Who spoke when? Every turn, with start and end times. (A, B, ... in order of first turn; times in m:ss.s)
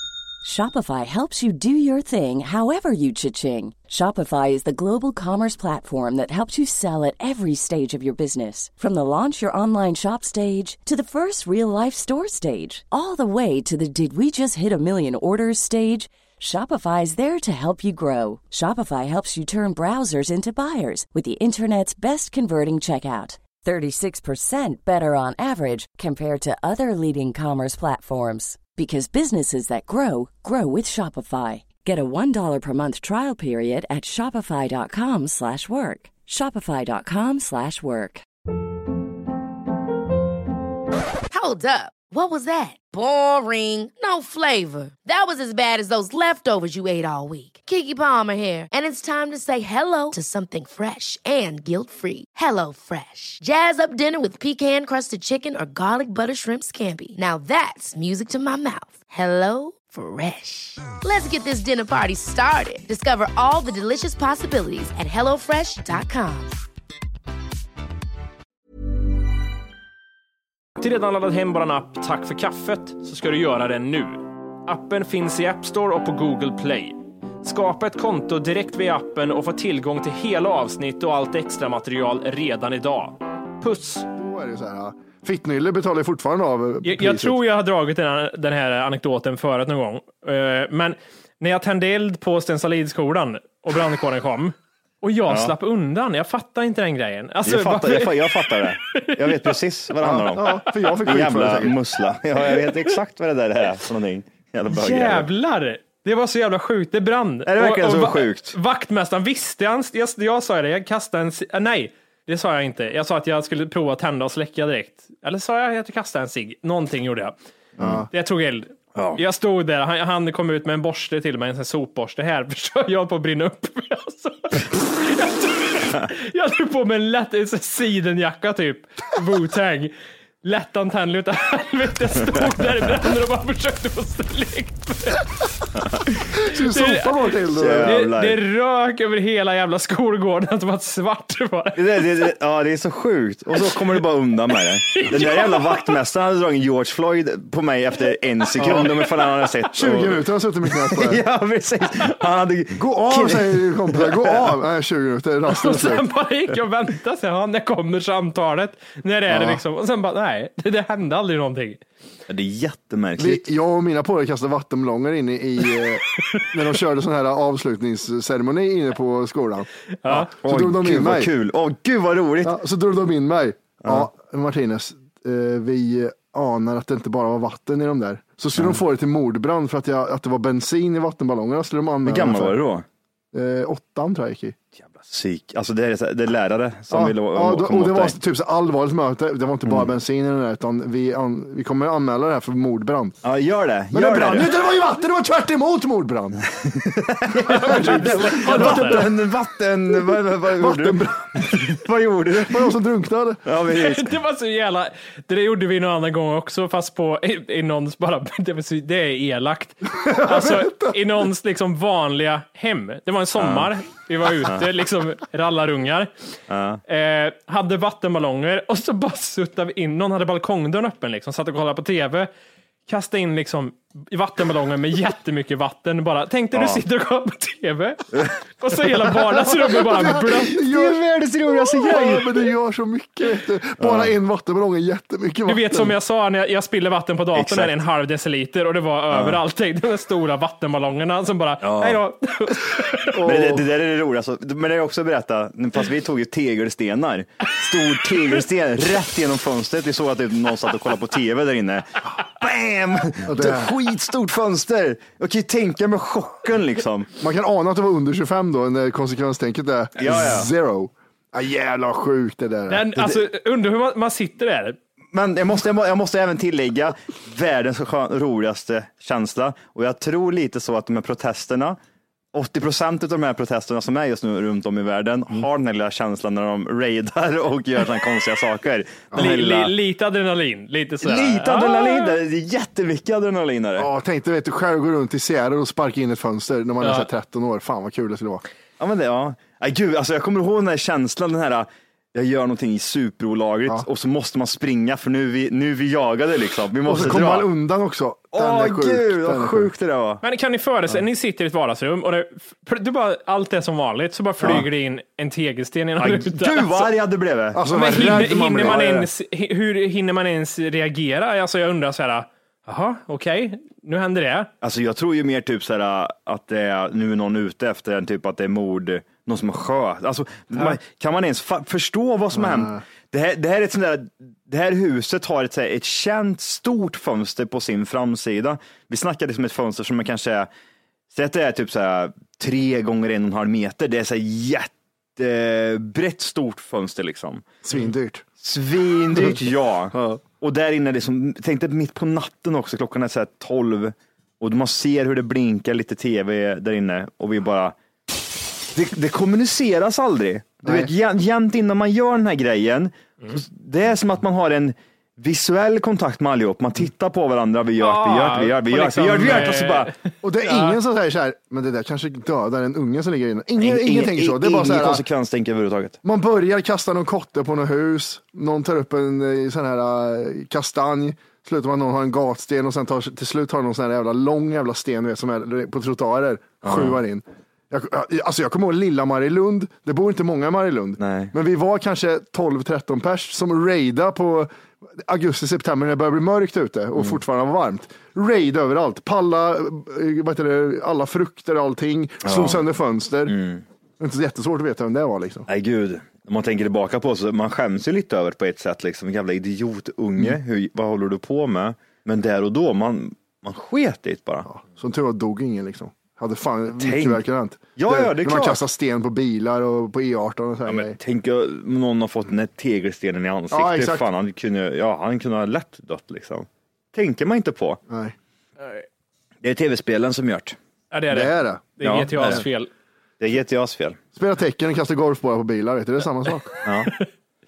0:00.4-0:38.2 A
0:41.3-1:06.6 B
1:10.8-1:24.1 C
1:24.2-1:27.4 D
1:26.8-1:39.6 C
1:35.3-1:35.5 E
1:37.4-1:45.3 E
1:40.0-1:41.8 D
1:40.4-1:40.9 C
1:42.4-1:43.0 C
1:44.7-1:57.4 C
1:47.5-1:48.6 E
1:57.8-1:58.1 D
1:57.8-1:58.0 E
1:58.1-2:15.3 C
1:59.0-1:59.2 E
2:16.4-2:17.9 D
2:16.5-2:22.3 C
2:17.5-2:18.4 E
2:21.8-2:30.2 E
2:24.5-2:26.0 C
2:28.5-2:29.7 C
2:29.7-2:31.2 D
2:30.9-2:34.6 E
2:32.8-2:36.1 D
2:35.5-2:41.8 C
2:39.3-2:39.6 D
2:42.3-2:43.4 E
2:43.2-2:51.3 D
2:50.0-2:50.3 C
2:50.4-2:52.6 E
2:52.4-3:02.6 D
3:02.1-3:02.8 E
3:03.3-3:04.6 D
3:04.8-3:08.2 E
3:06.9-3:13.2 D
3:13.2-3:14.5 E
3:13.9-3:16.4 D
3:16.6-3:22.7 E
3:17.4-3:19.1 D
3:17.5-3:19.1 C
3:19.9-3:21.7 D
3:22.3-3:23.4 D
3:23.4-3:24.1 E
3:23.7-3:36.1 C
3:29.9-3:31.0 D
3:33.4-3:33.7 E
3:34.4-3:34.7 E
3:36.5-3:36.8 E
3:36.9-3:42.3 C
3:42.9-3:50.6 C
3:46.5-3:46.8 E
3:49.4-3:56.0 D
3:50.5-3:52.5 E
3:53.8-3:54.1 E
3:55.5-4:03.2 C
3:57.4-3:57.7 E
3:59.1-3:59.4 E
4:01.6-4:02.0 E
4:03.1-4:03.7 D
4:03.1-4:17.1 E
4:13.2-4:13.8 D
4:17.2-4:23.0 D
4:20.0-4:20.5 E
4:22.7-4:24.8 C
4:25.1-4:31.8 E
4:32.3-4:39.7 E
4:39.2-4:42.2 C
4:41.0-4:43.9 E
4:43.8-4:48.4 D
4:46.8-4:47.1 C
4:48.8-4:57.5 E
4:56.8-4:59.7 D
4:58.3-5:00.2 E
5:00.2-5:06.9 C
5:06.0-5:08.8 E
5:07.5-5:09.1 D
5:07.7-5:14.5 C
5:14.6-5:30.5 E
5:22.3-5:22.8 D
5:31.1-5:37.4 E
5:37.6-5:38.2 D
5:38.4-5:47.8 E
5:39.1-5:40.2 D
5:48.7-5:59.9 E
5:50.6-5:50.9 D
5:57.8-6:00.8 C
6:00.2-6:05.0 D
6:03.6-6:06.0 E
6:06.0-6:33.4 D
6:16.6-6:17.0 E
6:21.0-6:21.3 E
6:32.2-6:32.6 E
6:33.3-6:33.6 E
6:34.0-6:35.5 D
6:35.5-6:44.5 E
6:44.5-6:51.0 D
6:46.8-6:47.2 E
6:47.8-6:48.6 E
6:50.7-6:57.8 E
6:53.5-6:54.1 D
6:57.9-6:58.2 D
6:59.4-7:00.6 E
7:00.9-7:02.7 C
7:01.1-7:01.6 D
7:01.8-7:02.4 E
7:03.2-7:04.0 E
7:04.2-7:06.5 D
7:06.6-7:06.9 E